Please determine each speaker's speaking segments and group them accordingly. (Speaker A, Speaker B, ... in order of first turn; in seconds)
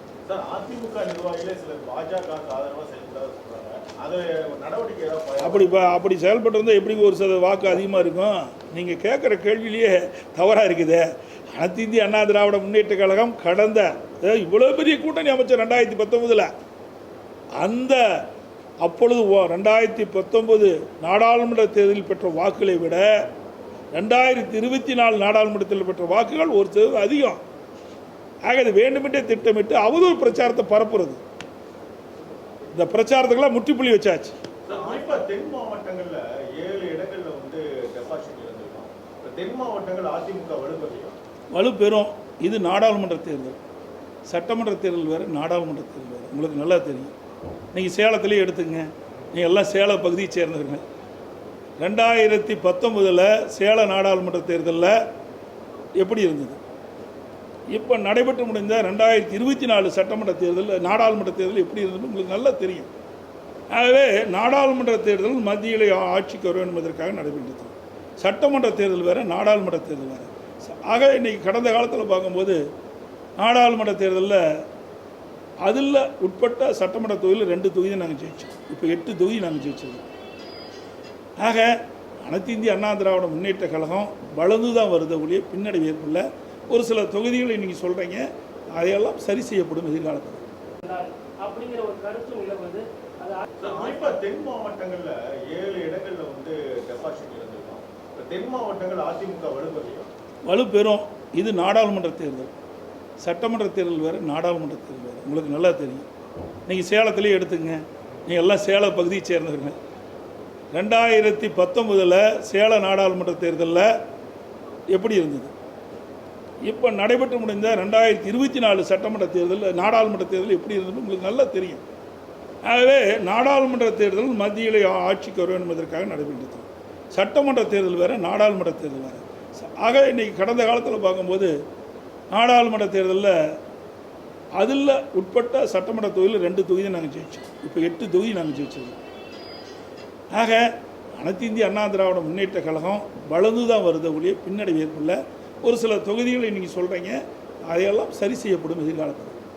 Speaker A: 0.2-5.8, 34.7-41.2, 93.6-100.1
Speaker B: 5.4-16.5, 17.6-18.2, 18.8-23.1, 23.9-27.4, 28.4-31.2, 32.7-34.4, 41.5-43.6, 44.3-47.1, 47.7-50.8, 51.8-54.9, 56.0-56.6, 57.7-62.9, 63.7-72.6, 73.4-74.6, 75.6-80.0, 81.4-90.4, 100.5-102.5, 103.2-106.0, 106.7-109.8, 110.7-113.9, 114.9-115.5, 116.6-121.8, 122.6-131.5, 132.3-133.3, 134.6-139.0, 140.3-149.3
Speaker C: 90.8-93.8